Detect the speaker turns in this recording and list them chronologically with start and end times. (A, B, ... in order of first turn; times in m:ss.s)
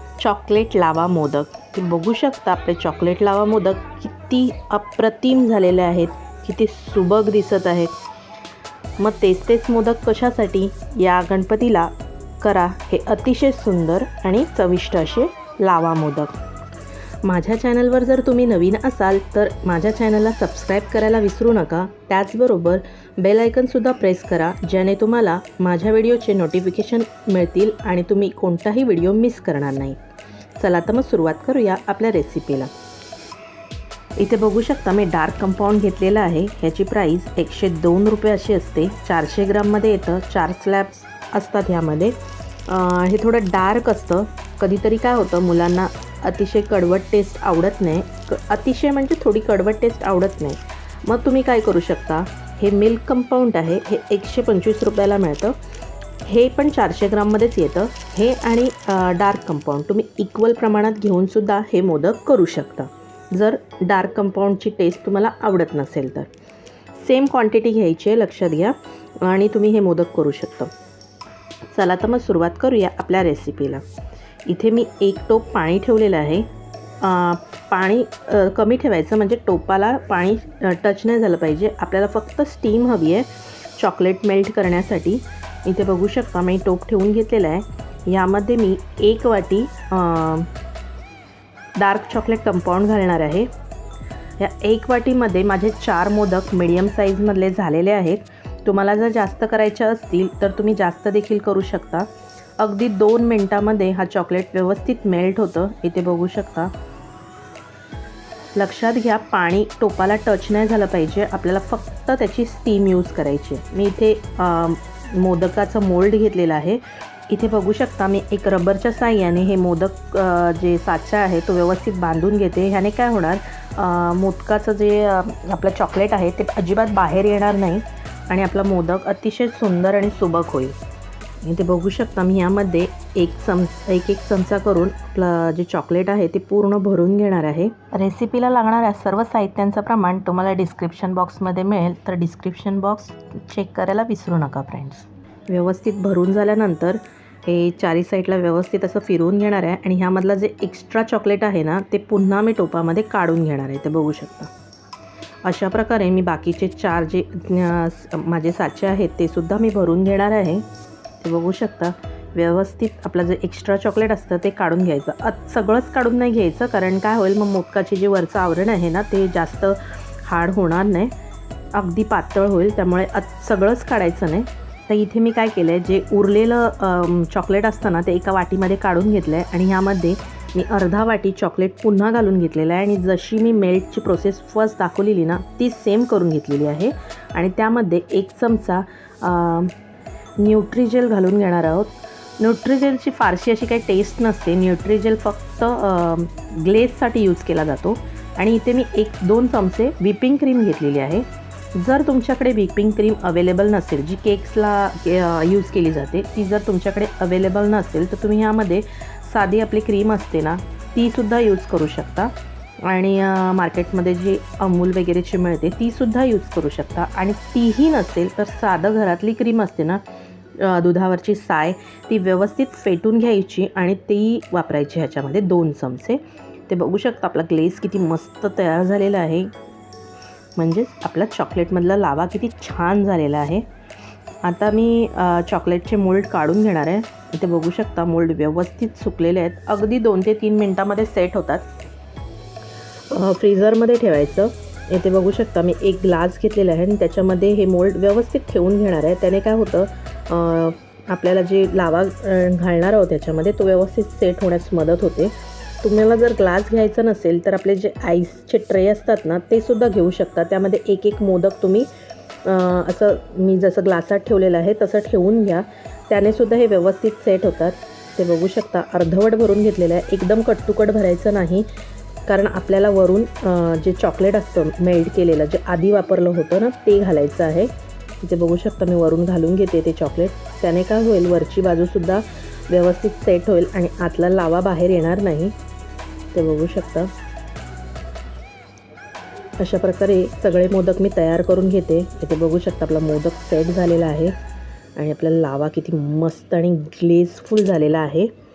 0:00.2-0:07.9 A
0:09.0-0:16.3 A
0:17.2-0:30.0 A
0:30.6-0:32.7 A
0:34.2-0:42.2 A
0:42.7-0:55.6 A
0:56.2-1:06.3 A
1:07.0-1:10.7 A
1:11.7-1:13.8 A
1:14.5-1:16.5 A
1:17.0-1:30.5 A
1:31.8-1:33.5 A
1:34.4-1:42.1 A
1:42.6-1:46.7 A
1:48.6-2:10.7 A
2:11.4-2:34.5 A
2:35.4-2:40.6 A
2:41.2-2:51.1 A
2:51.7-3:09.7 A
3:10.4-3:32.3 A
3:32.8-3:40.0 A
3:40.6-3:49.5 A
3:50.6-3:53.6 A
3:54.4-4:01.7 A
4:03.1-4:21.9 A
4:22.4-4:31.7 A
4:32.2-4:45.5 A
4:46.3-4:47.1 A
4:49.6-4:54.3 A
4:55.0-4:58.3 A